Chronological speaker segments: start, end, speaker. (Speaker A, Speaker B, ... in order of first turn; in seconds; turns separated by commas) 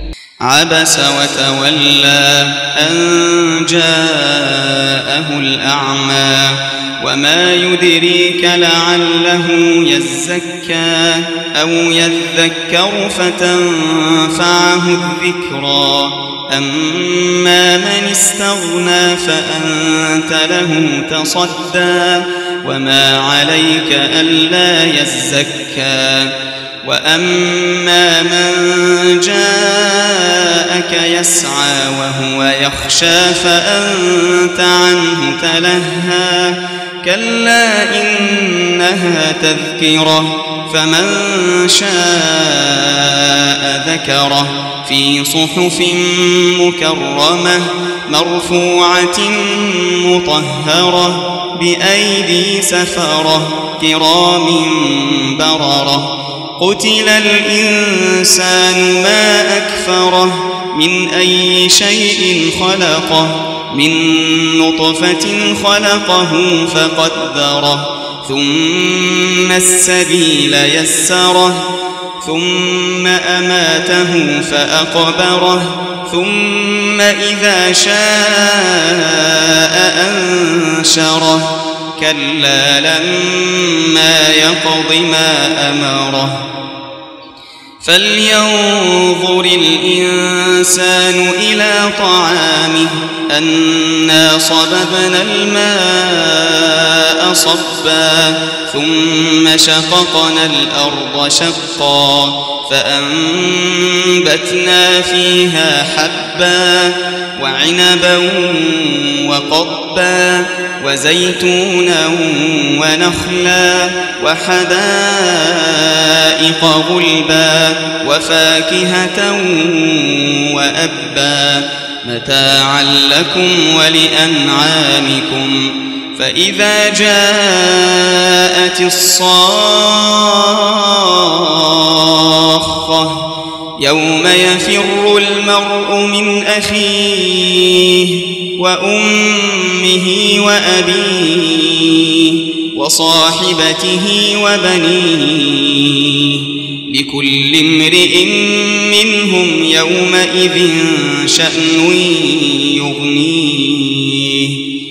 Speaker A: 0.4-71.7, Speaker A: 72.2-86.5, Speaker A: 87.8-133.2, Speaker A: 133.8-154.6